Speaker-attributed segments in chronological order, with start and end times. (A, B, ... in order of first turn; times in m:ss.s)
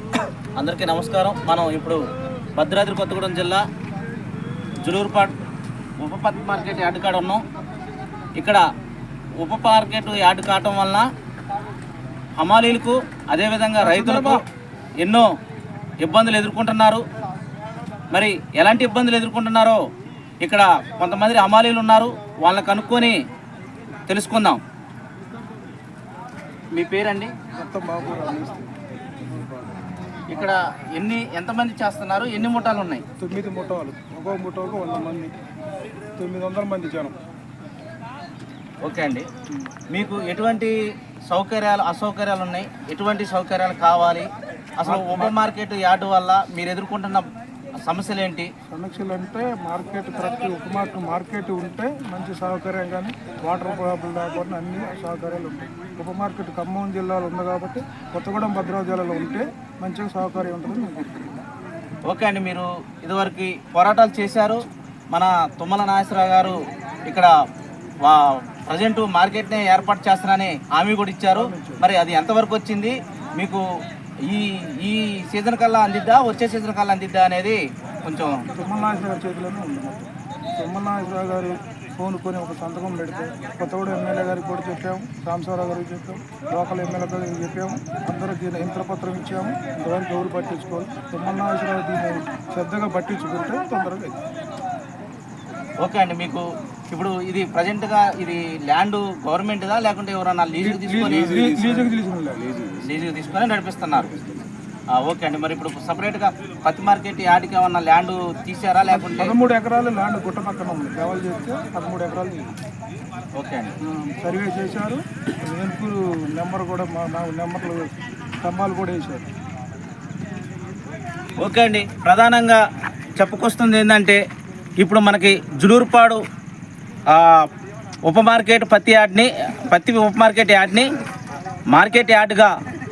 0:00.6-0:02.0 A
0:02.6-0:03.6 A
0:04.8-0:05.3 A
0:06.0-0:07.4 A
0:08.4-0:08.6 A
0:09.4-0:11.1 A
0:12.4-0:14.4 A
0:13.8-0:14.4 B
0:15.0-0:15.2 A
0:16.0-0:17.0 A
0:18.1-0:19.8 A
0:20.4-0:23.2 A
0:24.1-0:24.6 A
0:26.7-0:27.3 A
0:27.5-0:28.7 B
0:30.3-0:33.0 A
0:33.2-0:35.3 B
0:36.2-0:37.2 B
0:38.8-0:39.2 A
0:39.9-0:40.8 A
0:41.3-0:44.3 A
0:44.8-0:47.2 A
0:44.8-0:45.3 B
0:47.8-0:48.5 A
0:48.7-1:01.4 B
1:02.1-1:06.6 A
1:08.0-1:13.6 A
1:11.3-1:11.8 B
1:14.3-1:18.4 A
1:18.5-1:34.2 B
1:35.8-1:41.4 A
1:40.6-1:42.4 B
1:42.8-1:44.1 A
1:45.0-1:49.3 A
1:48.9-1:52.4 B
1:53.4-1:53.7 A
1:53.8-1:59.2 B
2:01.4-2:02.6 A
2:03.2-2:04.2 A
2:04.8-2:06.2 A
2:07.1-2:07.4 A
2:08.0-2:10.9 A
2:11.7-2:12.5 A